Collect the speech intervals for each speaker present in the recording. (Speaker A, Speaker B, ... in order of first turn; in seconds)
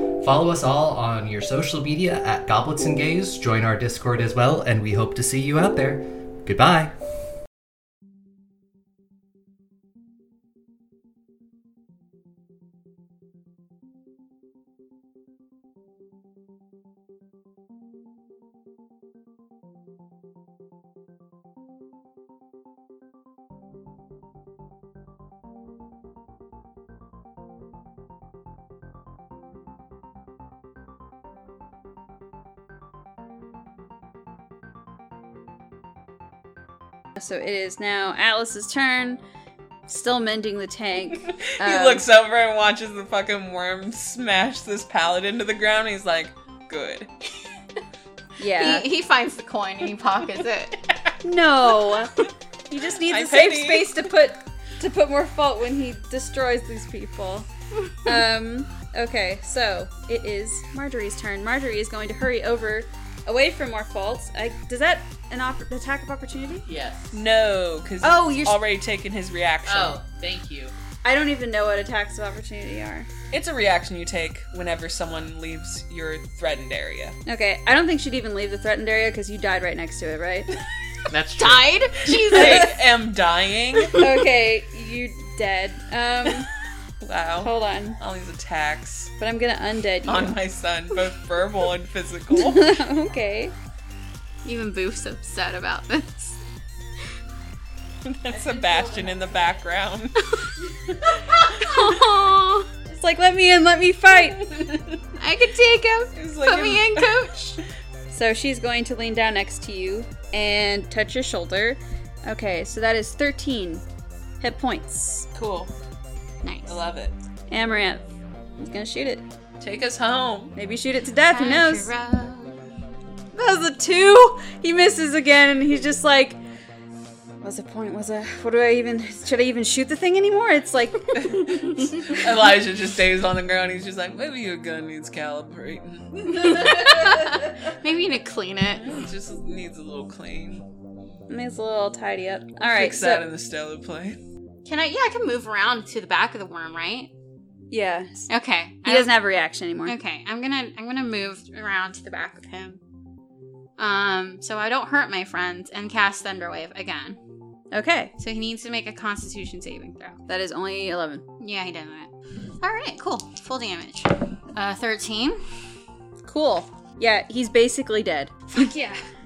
Speaker A: 0.2-6.9
Speaker B: 37.1-39.2, 39.9-42.0, 48.4-48.9, 51.2-57.5, 58.0-66.7, 68.0-68.6, 71.0-73.1, 77.2-80.5, 84.0-86.5, 87.4-88.0, 89.2-90.4, 92.3-93.5, 98.3-99.3, 102.8-104.5, 108.1-113.8, 114.4-115.3, 117.5-118.0, 118.6-119.2, 120.5-121.9, 123.3-126.4, 127.4-132.2, 141.3-143.2, 147.7-148.3, 148.8-149.9, 157.7-158.1, 160.3-161.2, 166.2-168.7
Speaker C: 41.6-47.1, 53.0-54.0, 67.1-70.0, 73.3-77.2, 82.2-84.0, 87.0-89.1, 90.1-92.8, 98.0-100.3, 100.9-101.2, 104.2-105.0, 106.2-107.2, 115.3-115.7, 116.7-117.1, 119.6-120.5, 131.1-136.7, 138.7-140.7, 142.7-144.2
Speaker D: 48.5-50.8, 81.4-82.7, 83.8-84.1, 94.4-96.4, 101.1-102.7, 105.2-107.6, 116.4-116.8, 121.3-122.6, 136.3-139.0, 144.6-147.1, 148.3-149.2, 149.8-152.8, 153.8-157.2, 158.2-160.2, 161.4-162.1, 162.6-165.4, 168.5-169.0
Speaker E: 66.7-67.2, 69.7-70.7, 81.1-81.8